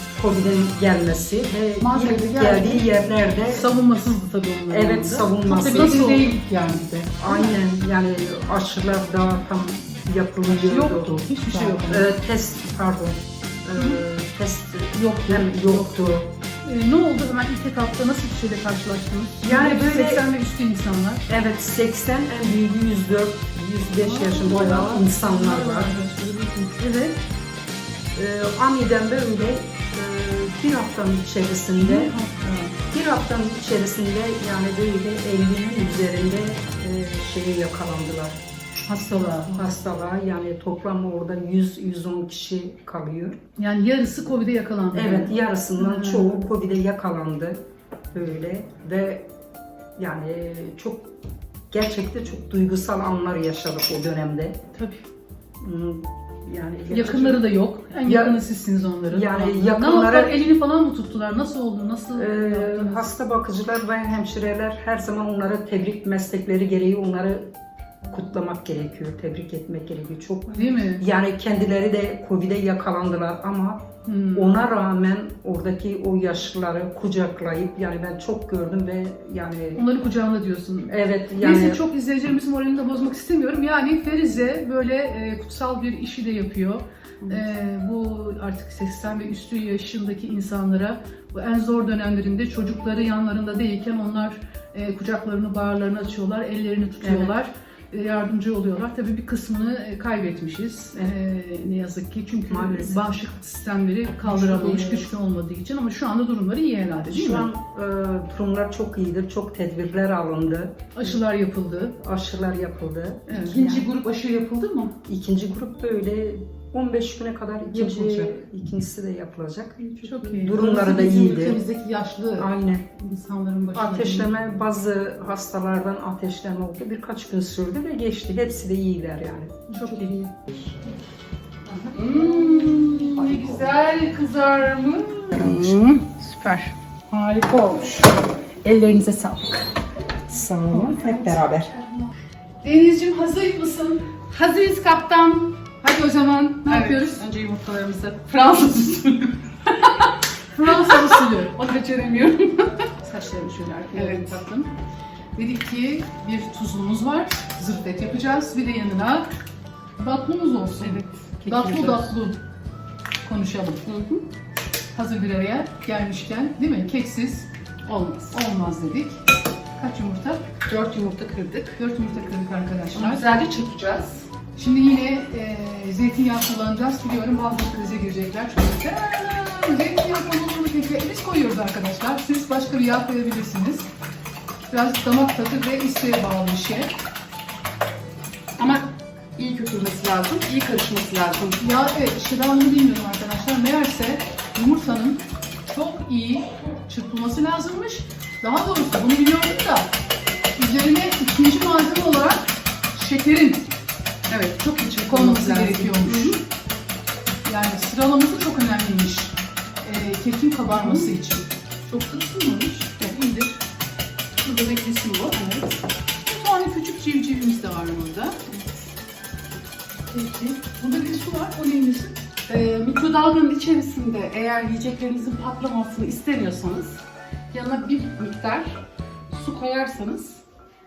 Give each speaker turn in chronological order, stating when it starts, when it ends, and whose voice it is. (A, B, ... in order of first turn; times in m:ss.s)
0:00.2-0:03.9 A
0:01.8-0:02.8 B
0:03.5-0:06.4 B
0:04.7-0:06.1 A
0:05.5-0:07.1 C
0:07.1-0:16.3 A
0:10.5-0:12.1 B
0:13.8-0:14.0 B
0:15.0-0:21.2 B
0:19.4-0:20.3 A
0:21.3-0:26.0 A
0:24.0-0:27.2 B
0:28.2-0:32.1 A
0:31.8-0:32.7 B
0:32.8-0:38.4 A
0:38.9-0:39.6 B
0:39.3-0:43.4 A
0:43.6-0:46.4 B
0:44.9-0:47.6 A
0:48.1-0:49.3 A
0:50.0-0:51.1 A
0:51.7-0:54.6 A
0:54.7-0:55.0 B
0:55.6-0:57.4 A
0:56.9-1:03.1 B
0:58.0-0:58.4 A
0:59.1-1:00.4 A
1:02.2-1:07.5 A
1:08.1-1:19.8 A
1:10.5-1:11.0 B
1:14.0-1:14.6 B
1:19.8-1:47.5 B
1:20.9-1:21.8 A
1:37.0-1:37.3 A
1:42.5-1:43.0 A
1:44.4-1:45.1 C
1:44.4-1:44.7 A
1:47.1-1:50.9 A
1:51.0-1:52.0 B
1:52.0-1:53.9 A
1:53.3-1:53.7 B
1:53.5-1:54.9 C
1:55.0-2:01.6 A
1:57.7-1:58.4 C
2:00.0-2:02.3 B
2:00.1-2:02.5 C
2:02.4-2:02.9 A
2:03.0-2:04.2 B
2:03.7-2:10.5 A
2:03.8-2:04.2 C
2:09.7-2:10.2 B
2:09.8-2:10.2 C
2:11.7-2:19.7 C
2:11.9-2:15.5 B
2:15.4-2:15.8 A
2:20.3-2:21.8 A
2:20.8-2:21.0 C
2:22.6-2:24.2 B
2:24.3-2:25.5 C
2:25.8-2:27.2 B
2:26.6-2:30.0 C
2:30.5-2:31.6 B
2:30.7-2:32.8 C
2:33.0-2:34.7 B
2:33.9-2:34.4 C
2:35.4-2:39.3 B
2:40.0-2:42.4 B
2:40.8-2:41.1 C
2:41.4-2:42.2 A
2:43.2-2:43.8 B
2:43.9-2:44.2 C
2:45.0-2:49.2 B
2:47.9-2:48.2 C
2:49.8-2:50.5 B
2:50.6-2:51.8 C
2:51.8-2:53.4 B
2:52.9-2:54.2 C
2:54.6-3:03.9 B
3:04.7-3:06.9 B
3:08.6-3:11.6 C
3:11.6-3:19.9 B
3:20.6-3:23.7 B
3:24.3-3:26.4 C
3:25.0-3:26.4 B
3:27.4-3:33.6 B
3:30.7-3:31.1 C
3:34.4-3:38.4 B
3:40.1-3:40.4 C
3:40.2-3:42.1 B
3:42.5-3:47.0 C
3:47.5-3:48.8 C
3:49.3-3:50.4 C